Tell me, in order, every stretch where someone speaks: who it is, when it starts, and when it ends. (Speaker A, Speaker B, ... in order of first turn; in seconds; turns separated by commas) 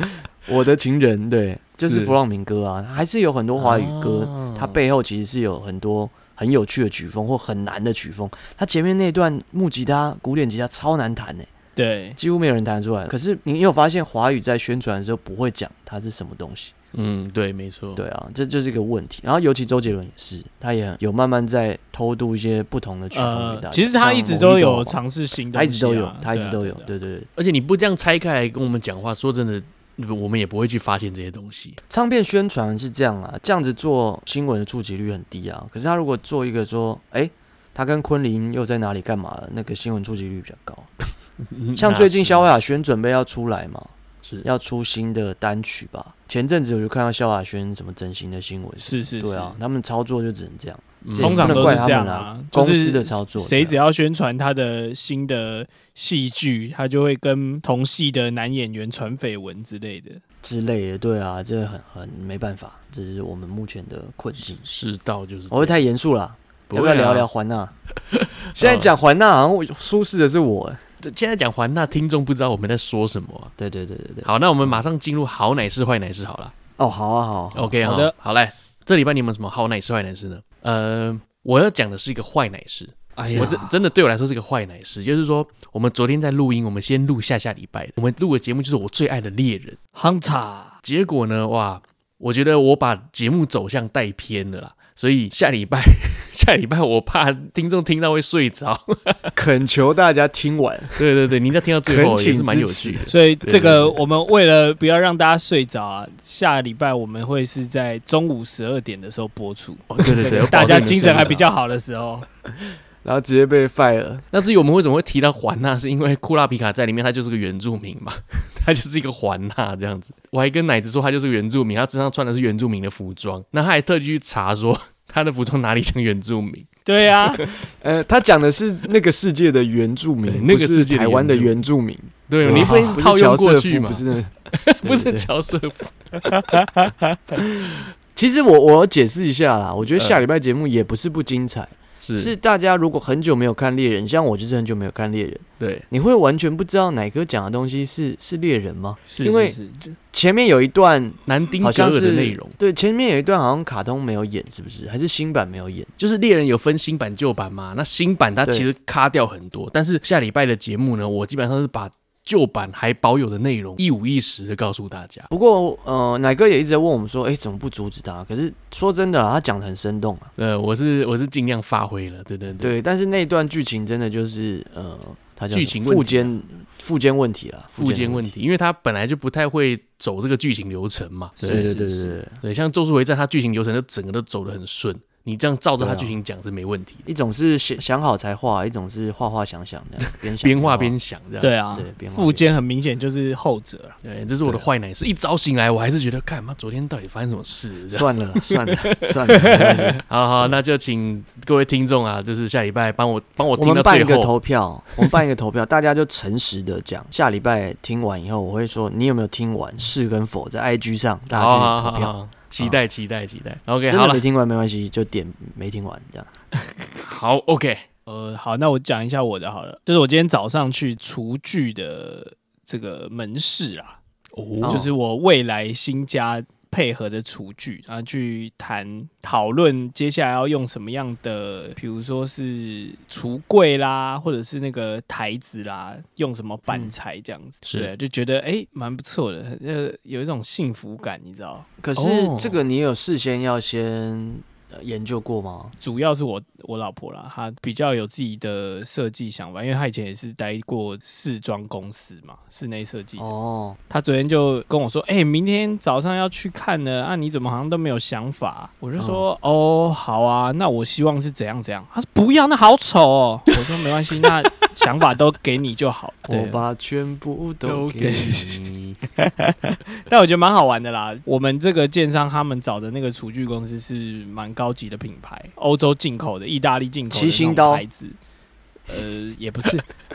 Speaker A: 0.5-11.5, Speaker B: 1.8-2.1, Speaker B: 3.6-4.8, Speaker C: 11.8-12.2, Speaker A: 12.2-16.7, Speaker B: 16.9-18.0, Speaker A: 17.9-25.0, Speaker C: 23.1-26.9, Speaker A: 25.5-27.3, Speaker B: 27.4-31.8, Speaker A: 31.9-40.9, Speaker B: 41.5-42.6, Speaker A: 41.8-43.9, Speaker A: 44.4-53.8, Speaker C: 48.8-49.6, Speaker B: 51.0-51.9, Speaker C: 51.2-60.2, Speaker A: 60.4-64.7, Speaker B: 64.6-65.8, Speaker A: 65.5-67.7, Speaker B: 66.7-67.3, Speaker B: 68.1-68.9, Speaker A: 68.5-70.8, Speaker B: 71.0-73.5, Speaker A: 73.6-74.8, Speaker B: 74.2-76.5, Speaker A: 76.8-77.8, Speaker B: 77.5-89.8, Speaker C: 77.8-78.1, Speaker C: 83.2-83.7, Speaker A: 83.2-83.7, Speaker C: 90.0-90.8, Speaker B: 90.8-99.3, Speaker A: 99.3-101.0, Speaker B: 101.0-104.0, Speaker A: 101.8-103.1, Speaker C: 103.1-112.2, Speaker B: 109.9-111.5, Speaker A: 110.0-111.2, Speaker A: 113.0-114.2, Speaker B: 114.3-126.7, Speaker C: 126.8-127.5, Speaker B: 127.2-127.5, Speaker A: 127.7-135.3, Speaker B: 130.2-131.5, Speaker B: 132.3-136.7, Speaker C: 132.5-132.9, Speaker A: 137.4-149.6, Speaker B: 140.0-140.2, Speaker B: 142.0-142.3, Speaker B: 145.6-145.8, Speaker C: 149.1-149.9, Speaker A: 150.1-155.9, Speaker B: 151.3-152.5, Speaker B: 156.0-165.3, Speaker A: 165.3-170.3, Speaker B: 170.4-172.8, Speaker A: 172.6-178.3, Speaker B: 175.5-176.3, Speaker B: 177.8-187.0, Speaker C: 181.4-182.0, Speaker A: 181.4-182.4, Speaker A: 185.8-186.2, Speaker A: 187.1-190.9, Speaker B: 190.1-191.6, Speaker C: 191.4-194.0, Speaker A: 191.7-192.5, Speaker B: 194.0-204.3, Speaker A: 197.9-200.6, Speaker C: 199.3-200.0, Speaker A: 203.6-212.8, Speaker B: 211.3-214.2, Speaker A: 213.9-216.3, Speaker B: 217.0-217.9, Speaker C: 218.1-224.0, Speaker B: 224.3-224.8, Speaker A: 224.6-224.9, Speaker C: 224.6-241.7, Speaker B: 237.6-237.9, Speaker A: 241.8-245.7, Speaker B: 241.9-242.6, Speaker C: 245.8-253.3, Speaker A: 253.2-253.8, Speaker C: 253.9-266.5, Speaker A: 259.0-259.2, Speaker A: 266.3-268.4, Speaker B: 267.6-269.0, Speaker C: 268.0-268.6, Speaker C: 269.2-278.2, Speaker A: 277.1-277.8, Speaker C: 278.9-279.8